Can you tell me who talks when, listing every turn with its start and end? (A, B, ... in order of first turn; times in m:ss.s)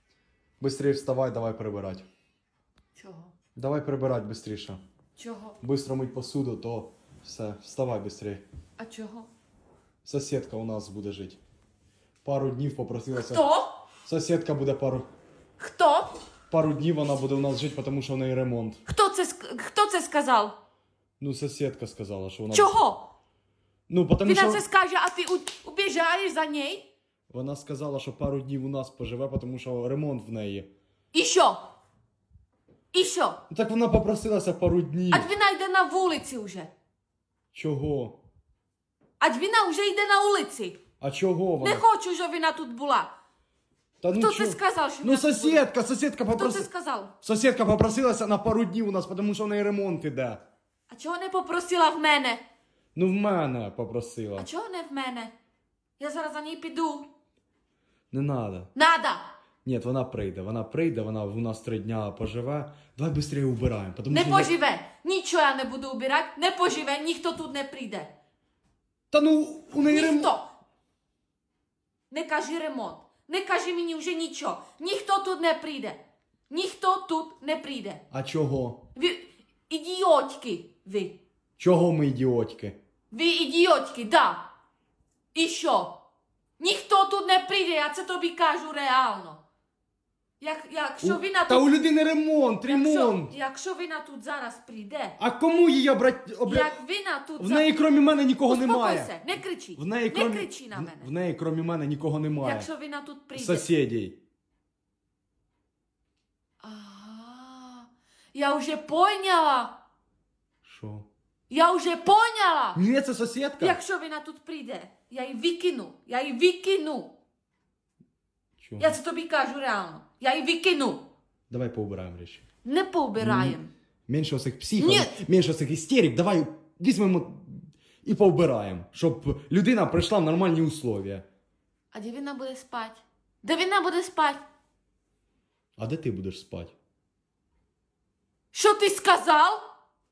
0:00.6-0:02.0 A
0:03.0-0:03.3 B
0:03.6-0:04.8 A
0:05.2-0:05.6 B
0:05.6-0:08.4 A
0:08.8-0:09.3 B
0:10.0-0:11.4 A
0:12.2-0:13.4 A
0:13.2-0:13.8 B
0:14.0-0:15.1 A
0:15.6-0:16.2 B
0:16.5-0:18.8 A
0:18.9-0:20.5 B
0:21.2-0:22.7 A
0:22.5-0:23.1 B
0:23.9-0:24.6 A
0:24.2-0:26.9 B
0:27.3-0:30.7 A
0:31.1-0:31.7 B
0:32.9-0:33.4 B
0:33.5-0:35.3 A
0:35.1-0:36.7 B
0:37.5-0:38.2 A
0:39.2-0:40.8 B
0:41.0-0:41.8 A
0:41.6-0:43.1 B
0:44.0-0:46.7 A
0:44.1-0:45.7 B
0:46.3-0:47.1 B
0:47.2-0:50.4 A
0:50.9-0:52.4 B
0:53.0-0:54.5 A
0:54.4-0:55.3 B
0:56.0-0:57.1 B
0:58.1-0:58.7 A
0:58.8-0:59.4 B
0:59.6-1:04.5 A
1:04.1-1:08.1 B
1:09.1-1:10.3 A
1:09.8-1:10.5 B
1:12.1-1:18.0 B
1:18.1-1:18.8 A
1:19.0-1:21.2 B
1:21.6-1:22.8 A
1:23.1-1:24.5 B
1:25.3-1:26.0 B
1:26.6-1:29.4 B
1:30.4-1:31.7 B
1:31.0-1:33.4 A
1:32.7-1:35.2 B
1:35.2-1:36.8 A
1:36.5-1:37.7 B
1:37.4-1:39.2 A
1:38.5-1:41.1 B
1:39.8-1:42.7 A
1:42.4-1:43.7 B
1:43.4-1:44.2 A
1:46.6-1:49.8 B
1:50.6-1:51.1 A
1:51.5-1:52.8 B
1:52.8-1:53.8 A
1:53.6-1:57.1 B
1:58.6-1:59.0 A
1:58.8-2:01.1 B
2:01.5-2:02.4 A
2:02.6-2:03.7 B
2:03.2-2:11.2 A
2:04.8-2:05.2 B
2:11.9-2:14.4 B
2:15.8-2:16.7 A
2:18.5-2:19.6 B